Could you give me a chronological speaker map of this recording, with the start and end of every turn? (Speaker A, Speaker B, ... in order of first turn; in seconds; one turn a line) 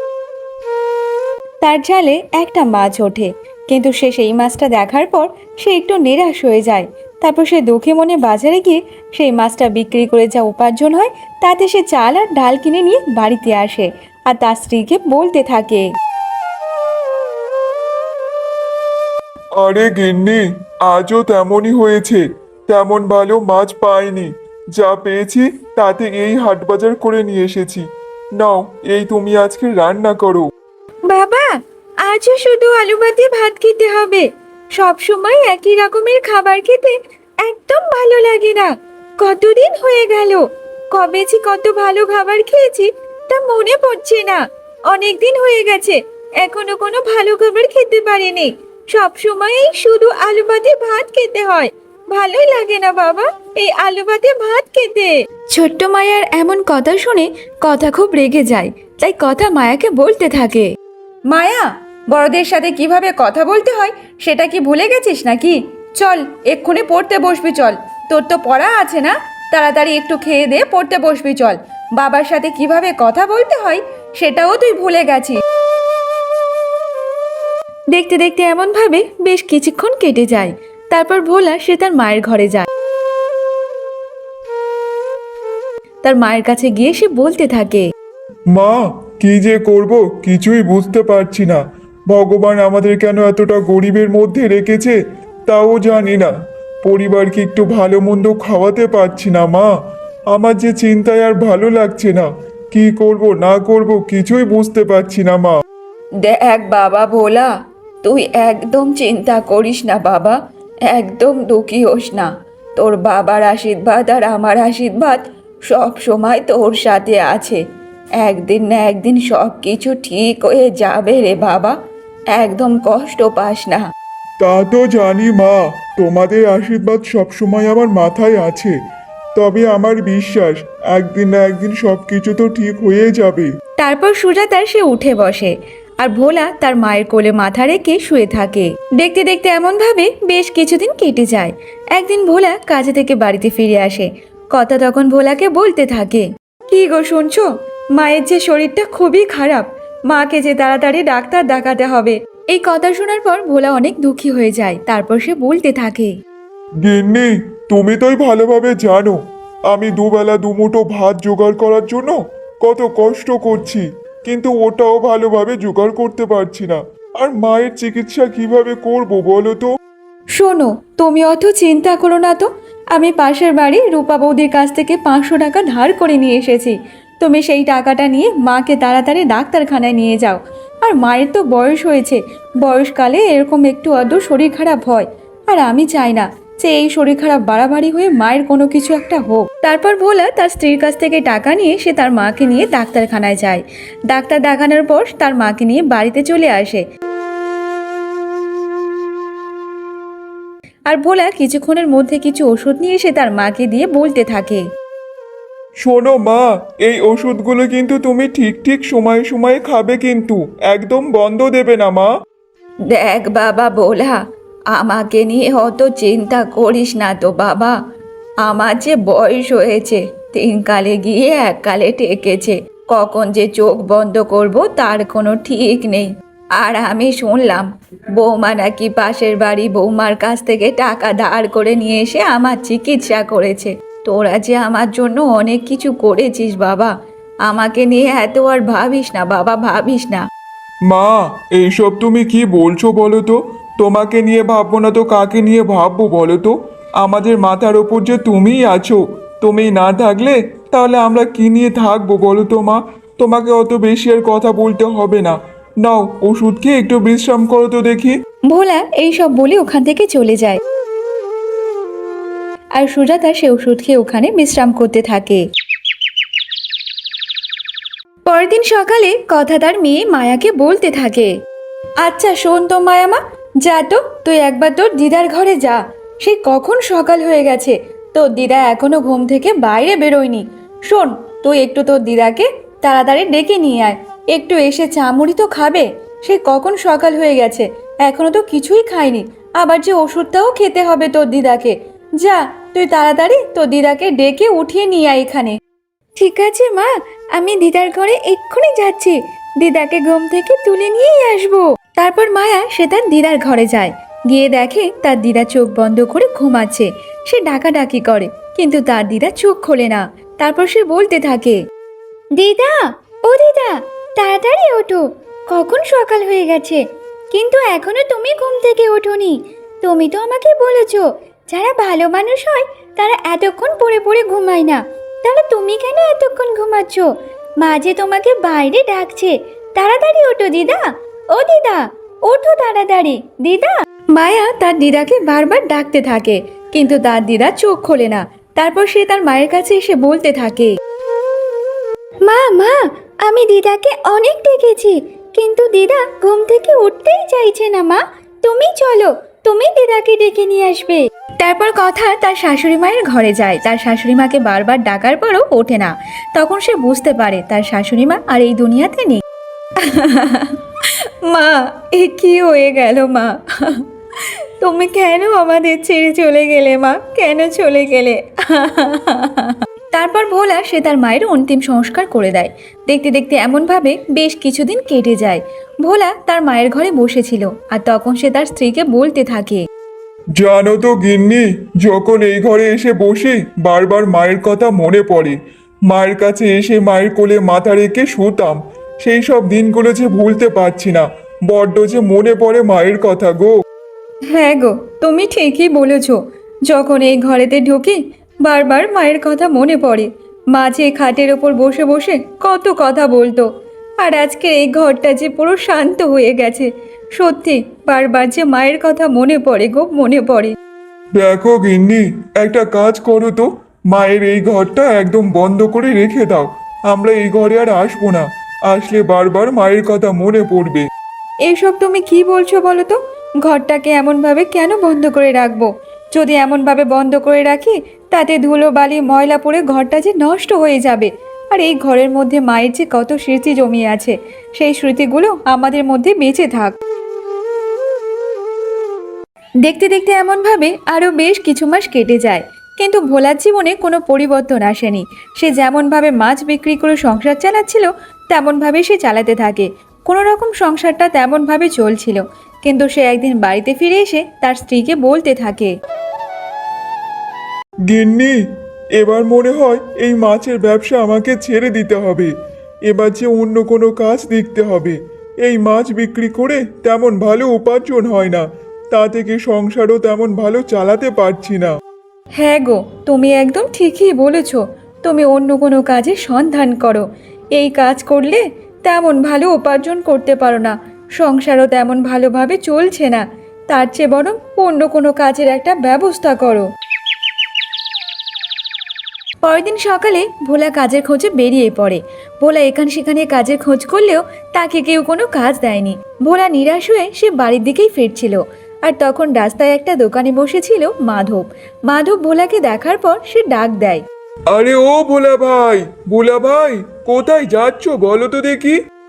Speaker A: 1.6-15.8
Speaker B: 19.6-30.5
Speaker A: 31.1-60.7
Speaker A: 61.3-75.4
Speaker A: 77.9-82.7
Speaker A: 86.0-87.8
Speaker B: 88.5-99.7
Speaker B: 100.3-105.6
Speaker A: 106.2-107.5
Speaker A: 108.0-117.6
Speaker A: 118.2-121.8
Speaker A: 122.3-123.9
Speaker B: 124.4-128.8
Speaker B: 129.3-133.5
Speaker A: 133.8-156.2
Speaker B: 156.8-169.7
Speaker A: 170.3-196.8
Speaker A: 200.9-204.6
Speaker B: 205.8-212.1
Speaker A: 212.9-214.2
Speaker A: 214.7-217.8
Speaker A: 218.4-236.9
Speaker A: 237.4-240.2
Speaker B: 240.9-258.2
Speaker A: 258.4-260.6
Speaker A: 262.7-265.4
Speaker A: 268.2-271.3
Speaker A: 272.0-295.6
Speaker A: 296.2-311.6
Speaker A: 312.4-327.1
Speaker A: 327.6-340.7
Speaker A: 342.2-359.2
Speaker A: 359.8-379.6
Speaker B: 380.4-385.4
Speaker B: 385.9-393.5
Speaker A: 394.3-403.5
Speaker A: 404.0-410.5
Speaker B: 411.1-420.9
Speaker A: 421.4-436.8
Speaker A: 439.6-455.7
Speaker B: 457.9-462.3
Speaker B: 462.9-471.7
Speaker A: 472.4-486.7
Speaker A: 489.4-504.0
Speaker B: 504.5-508.8